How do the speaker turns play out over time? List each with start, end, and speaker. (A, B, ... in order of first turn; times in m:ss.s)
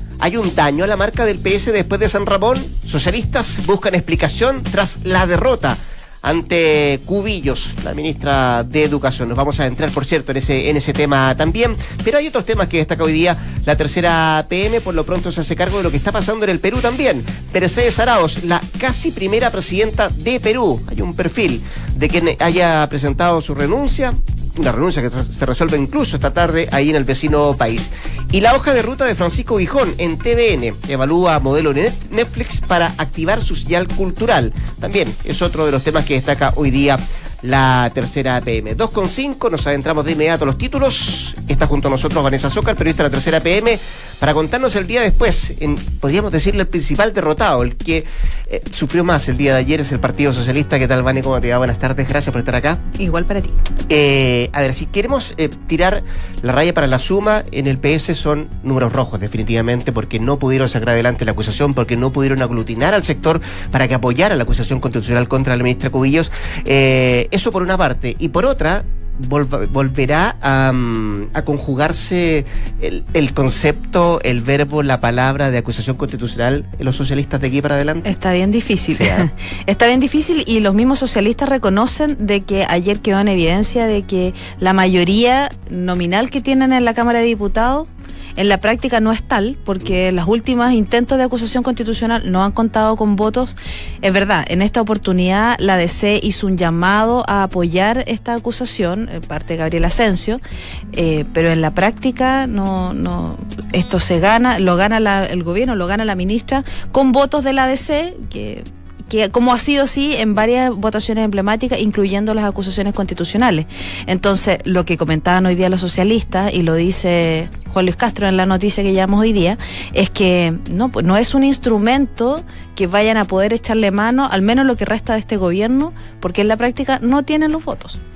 0:00.2-0:52.8 A
0:53.0-0:53.6 B
0:53.9-1:18.1 A
1:18.0-1:40.4 B
1:19.0-1:19.3 A
1:40.9-2:08.0 B